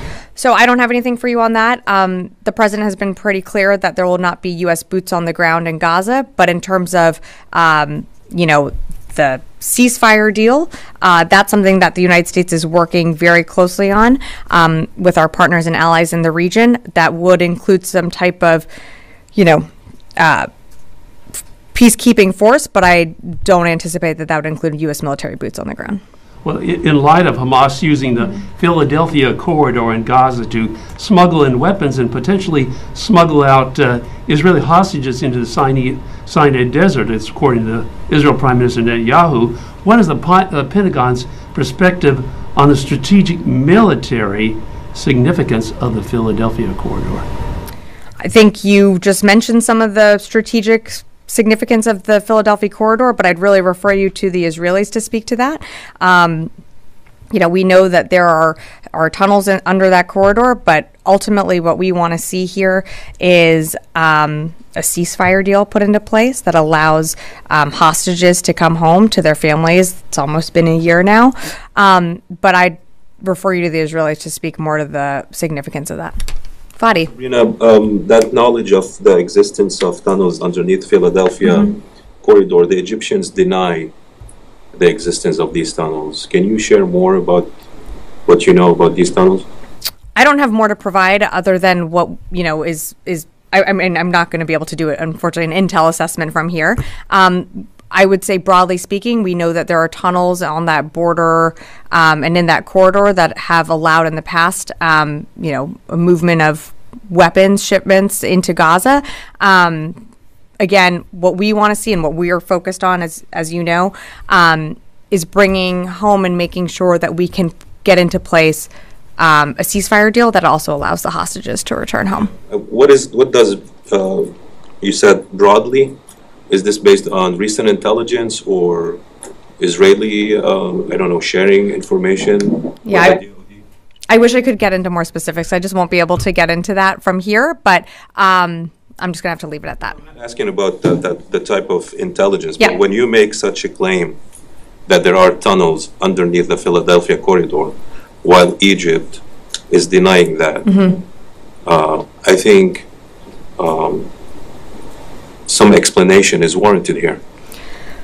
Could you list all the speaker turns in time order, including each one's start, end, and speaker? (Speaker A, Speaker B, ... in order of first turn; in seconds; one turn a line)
Speaker A: 0.4-18.7
Speaker A: 19.4-19.7
Speaker A: 20.2-20.5
Speaker A: 21.7-26.0
Speaker B: 26.4-47.3
Speaker A: 48.2-56.5
Speaker A: 57.3-76.2
Speaker A: 76.8-77.1
Speaker C: 77.1-83.9
Speaker C: 84.7-87.5
Speaker C: 88.3-89.5
Speaker A: 90.2-110.0
Speaker A: 110.6-122.3
Speaker C: 122.5-124.3
Speaker C: 124.8-125.9
Speaker C: 126.5-129.0
Speaker C: 129.6-133.3
Speaker A: 132.8-133.2
Speaker A: 134.1-140.0
Speaker C: 140.2-144.2
Speaker C: 144.9-150.7
Speaker A: 150.7-151.0
Speaker C: 151.7-152.9
Speaker C: 153.6-154.1
Speaker C: 155.5-157.2